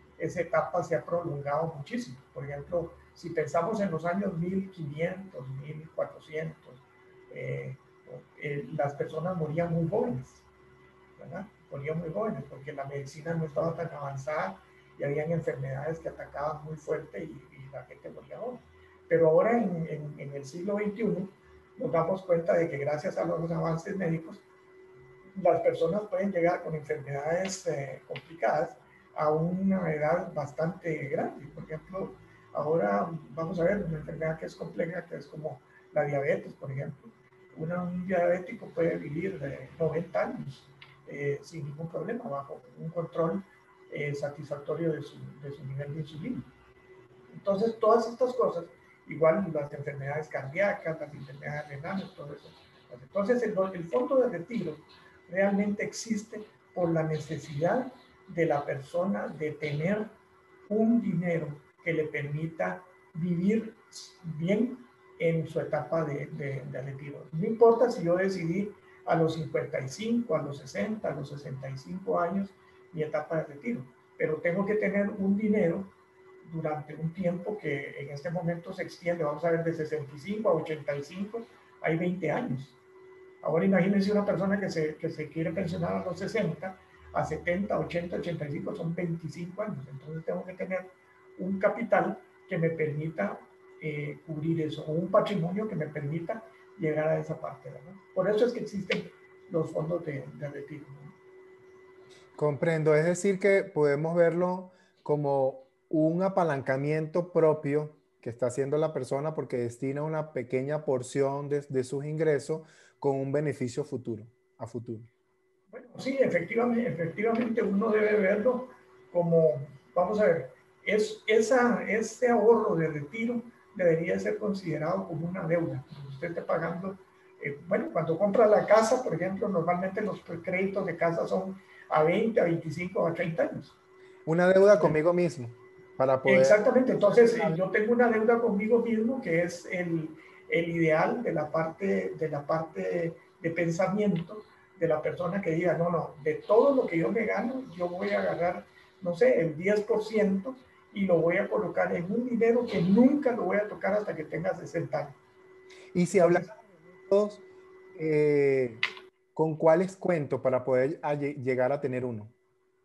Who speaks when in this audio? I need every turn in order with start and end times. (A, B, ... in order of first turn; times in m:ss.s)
0:00.2-0:10.5 A
0:11.2-0:24.4 A
0:25.4-0:46.5 A
0:47.3-1:00.2 A
1:00.7-1:22.8 A
1:23.4-1:41.2 A
1:42.4-1:55.1 B
1:55.7-2:13.8 A
2:14.2-2:17.6 B
2:16.2-2:35.2 A
2:35.9-2:38.8 B
2:36.2-2:36.5 A
2:39.3-2:42.3 B